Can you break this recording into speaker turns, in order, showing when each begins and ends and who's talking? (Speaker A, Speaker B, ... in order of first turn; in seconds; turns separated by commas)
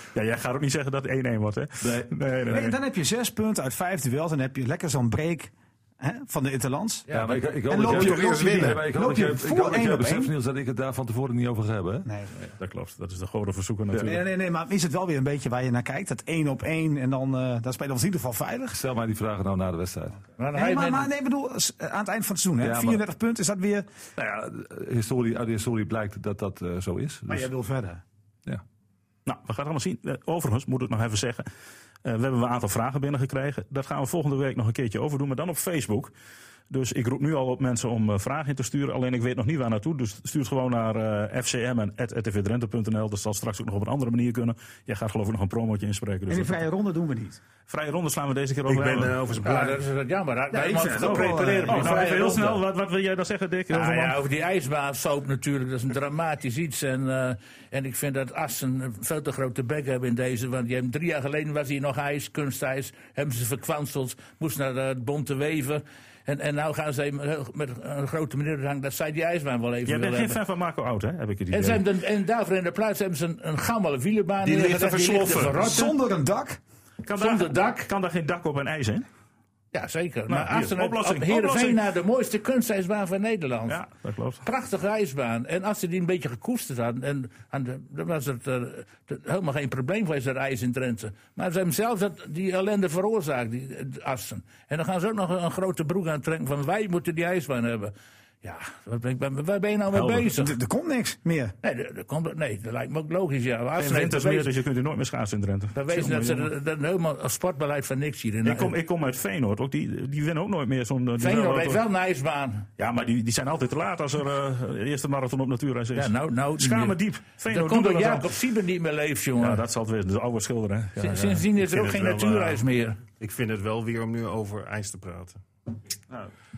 Speaker A: 0.1-2.8, Speaker B: 1.8-2.1, Speaker C: 2.5-10.3, Speaker D: 7.1-7.4, Speaker B: 7.1-12.1, Speaker E: 7.7-8.9, Speaker C: 12.1-12.3, Speaker A: 12.4-14.2, Speaker B: 13.9-14.2, Speaker C: 14.0-18.8, Speaker B: 18.7-20.2, Speaker D: 20.4-21.1, Speaker C: 20.5-23.9, Speaker B: 22.6-23.0, Speaker B: 24.2-27.5, Speaker C: 27.3-28.0, Speaker A: 29.3-31.5, Speaker A: 32.0-36.1, Speaker A: 36.7-46.7, Speaker C: 46.3-47.4, Speaker A: 47.6-49.5, Speaker E: 48.7-49.8, Speaker D: 49.4-52.6, Speaker C: 50.5-52.0, Speaker A: 51.0-54.2, Speaker D: 53.7-70.4, Speaker A: 69.9-71.8, Speaker D: 71.5-75.9, Speaker E: 74.4-75.7, Speaker C: 75.6-76.6, Speaker A: 77.0-79.1, Speaker D: 77.2-77.9, Speaker D: 79.7-83.8, Speaker A: 80.3-81.8, Speaker A: 83.7-84.4, Speaker D: 84.4-100.5, Speaker A: 99.9-100.3, Speaker C: 100.3-101.5, Speaker D: 101.6-104.5, Speaker A: 103.8-106.5, Speaker D: 105.7-108.8, Speaker A: 108.4-111.8, Speaker D: 111.2-112.7, Speaker A: 112.8-118.3, Speaker D: 116.0-119.6, Speaker A: 119.4-121.5, Speaker D: 121.0-123.0, Speaker E: 121.7-122.6, Speaker E: 123.2-125.4